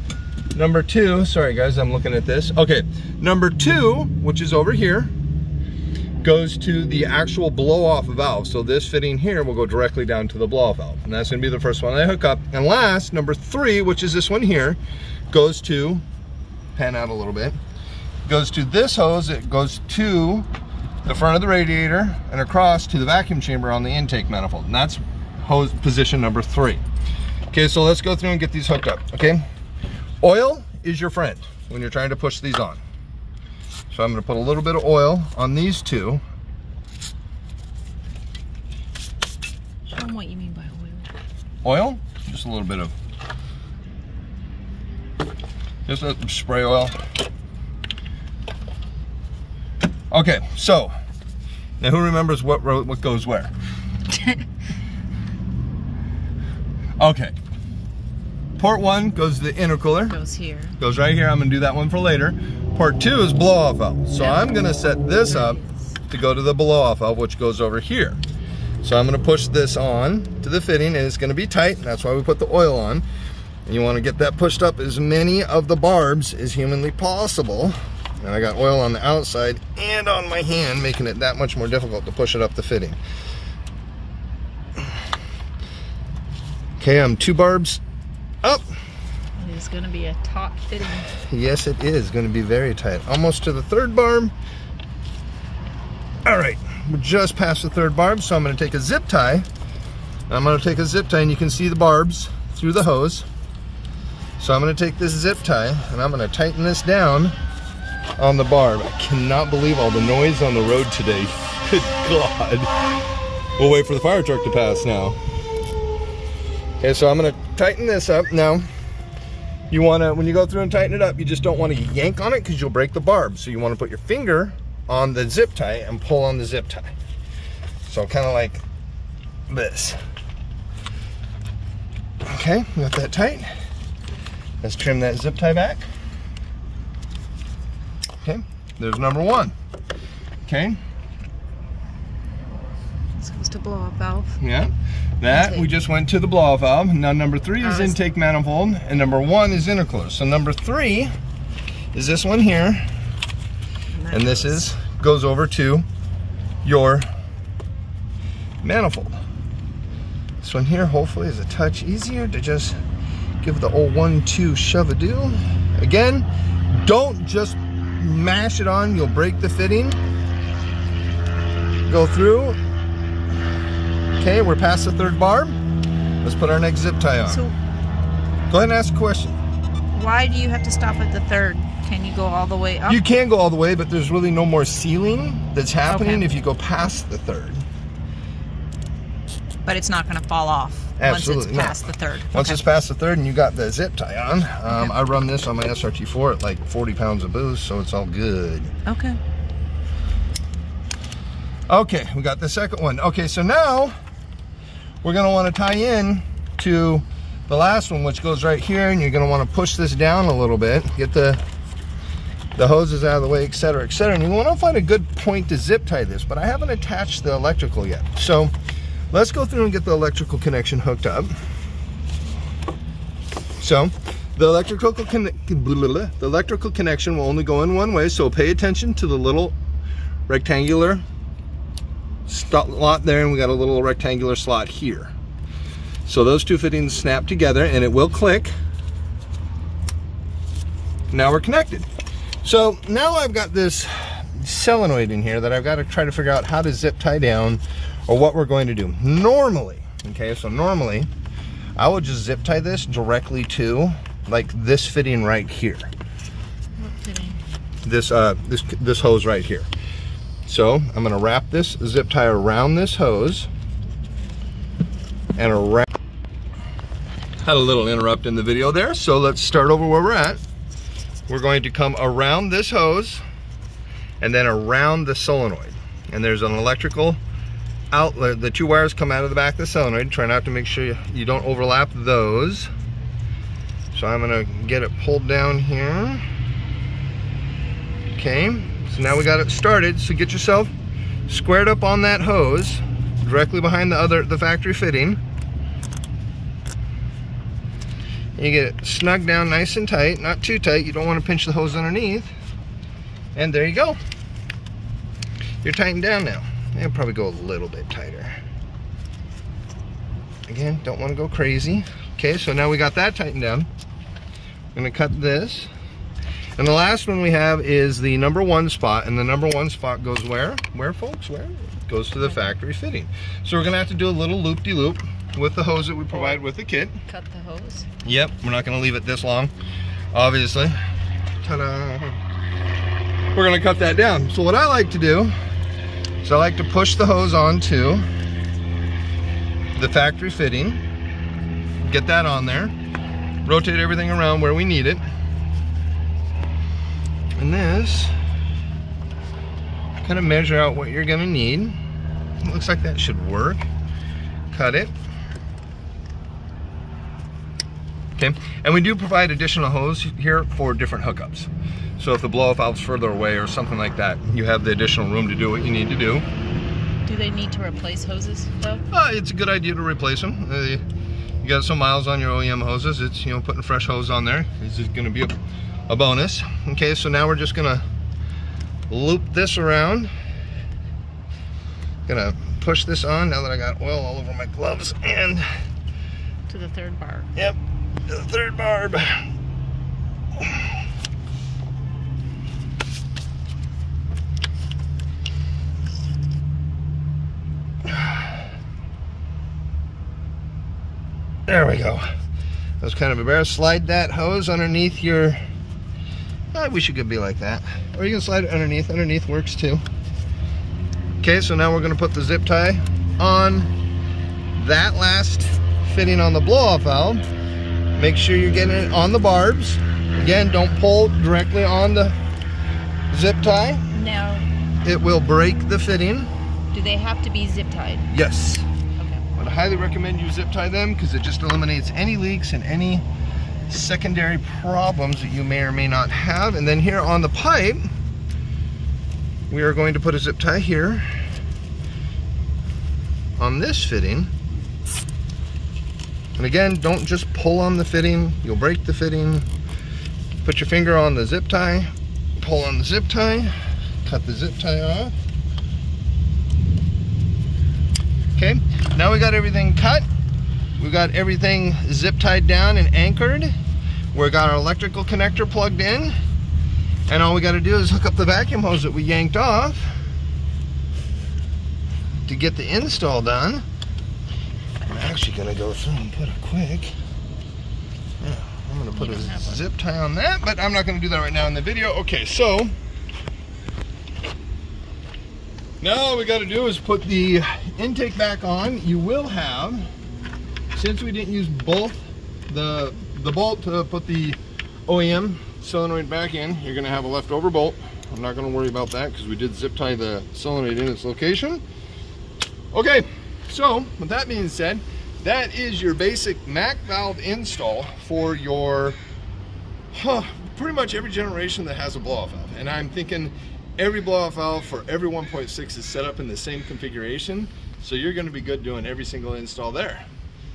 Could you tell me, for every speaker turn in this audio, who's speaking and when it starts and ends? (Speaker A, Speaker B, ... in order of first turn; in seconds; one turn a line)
Speaker A: 0.5-5.1
Speaker A: 6.2-14.8
Speaker A: 15.3-16.0
Speaker A: 16.8-17.6
Speaker A: 18.2-20.5
Speaker A: 21.1-26.8
Speaker A: 27.5-29.4
Speaker A: 30.2-32.8
Speaker A: 33.9-36.2
Speaker B: 39.9-41.1
Speaker A: 41.6-42.9
Speaker A: 45.9-46.9
Speaker A: 50.1-50.9
Speaker A: 51.8-53.5
Speaker A: 57.0-57.3
Speaker A: 58.6-60.1
Speaker B: 60.0-60.7
Speaker A: 60.8-68.2
Speaker B: 64.2-64.6
Speaker B: 65.2-65.9
Speaker A: 68.8-73.0
Speaker A: 73.7-83.0
Speaker A: 86.8-87.8
Speaker A: 88.4-88.7
Speaker B: 89.4-91.1
Speaker A: 91.1-94.3
Speaker A: 96.2-99.5
Speaker A: 100.3-103.2
Speaker A: 104.4-107.3
Speaker A: 108.2-112.7
Speaker A: 113.6-115.2
Speaker A: 116.8-118.7
Speaker A: 119.7-126.9
Speaker A: 127.9-128.6
Speaker A: 129.5-130.0
Speaker A: 132.2-133.5
Speaker A: 134.6-135.9
Speaker A: 138.2-139.5
Speaker A: 140.4-140.8
Speaker B: 143.2-144.4
Speaker A: 144.4-151.1
Speaker B: 145.3-145.7
Speaker B: 147.6-147.9
Speaker A: 151.9-152.8
Speaker B: 153.9-154.6
Speaker A: 154.1-155.8
Speaker A: 156.6-157.1
Speaker A: 158.6-159.2
Speaker A: 160.4-162.8
Speaker A: 163.4-170.0
Speaker A: 171.9-172.6
Speaker A: 174.2-175.6
Speaker A: 176.2-177.4
Speaker B: 177.3-177.5
Speaker A: 178.5-179.3
Speaker B: 179.9-183.0
Speaker A: 182.9-187.6
Speaker B: 185.9-186.2
Speaker B: 189.6-192.6
Speaker A: 191.0-198.7
Speaker B: 198.8-199.2
Speaker A: 201.7-203.9
Speaker A: 205.0-211.4
Speaker A: 212.6-218.5
Speaker A: 219.1-221.3
Speaker A: 223.6-229.6
Speaker A: 230.3-231.0
Speaker A: 232.3-235.1
Speaker A: 236.0-238.5
Speaker A: 241.1-241.9
Speaker A: 242.4-251.1
Speaker A: 251.8-255.9
Speaker B: 256.8-257.4
Speaker A: 257.8-259.7
Speaker A: 260.4-263.5
Speaker A: 265.4-265.9
Speaker A: 267.4-270.4
Speaker A: 271.3-273.2
Speaker A: 274.2-277.2
Speaker A: 277.9-282.7
Speaker A: 283.9-286.2
Speaker A: 288.1-290.7
Speaker A: 291.3-295.2
Speaker A: 298.4-302.3
Speaker A: 303.3-304.0
Speaker A: 305.6-308.4
Speaker A: 310.5-313.7
Speaker A: 314.7-315.7
Speaker A: 316.6-327.0
Speaker B: 326.1-326.4
Speaker B: 327.1-327.9
Speaker A: 328.0-329.5
Speaker A: 330.1-330.8
Speaker A: 331.4-332.2
Speaker A: 333.3-335.3
Speaker A: 336.2-338.0
Speaker A: 339.7-340.8
Speaker A: 341.8-342.7
Speaker A: 343.4-345.0
Speaker A: 347.4-348.1
Speaker A: 350.0-351.8
Speaker A: 352.4-353.6
Speaker A: 354.5-354.9
Speaker A: 358.2-366.2
Speaker B: 367.1-368.8
Speaker A: 368.9-370.8
Speaker A: 371.4-375.3
Speaker A: 375.9-377.8
Speaker A: 378.9-380.1
Speaker A: 382.1-385.5
Speaker B: 386.5-387.3
Speaker A: 387.3-389.2
Speaker A: 397.9-398.2
Speaker A: 401.5-402.1
Speaker A: 402.8-405.4
Speaker A: 406.5-409.8
Speaker A: 411.2-413.7
Speaker A: 414.6-417.2
Speaker A: 417.9-422.1
Speaker A: 423.1-423.8
Speaker B: 423.9-424.5
Speaker A: 424.8-426.3
Speaker B: 426.7-428.1
Speaker A: 428.1-428.7
Speaker B: 429.0-429.2
Speaker A: 429.4-433.0
Speaker A: 433.7-437.8
Speaker A: 439.5-441.1
Speaker A: 443.4-444.3
Speaker A: 446.4-449.5
Speaker A: 450.4-455.1
Speaker A: 458.4-460.1
Speaker A: 460.8-463.5
Speaker A: 464.1-466.1
Speaker A: 467.1-470.0
Speaker A: 472.2-473.6
Speaker A: 474.8-476.9
Speaker A: 478.2-482.7
Speaker B: 478.9-479.6
Speaker A: 485.8-489.9
Speaker A: 490.7-501.6
Speaker A: 502.7-509.0
Speaker A: 509.9-520.0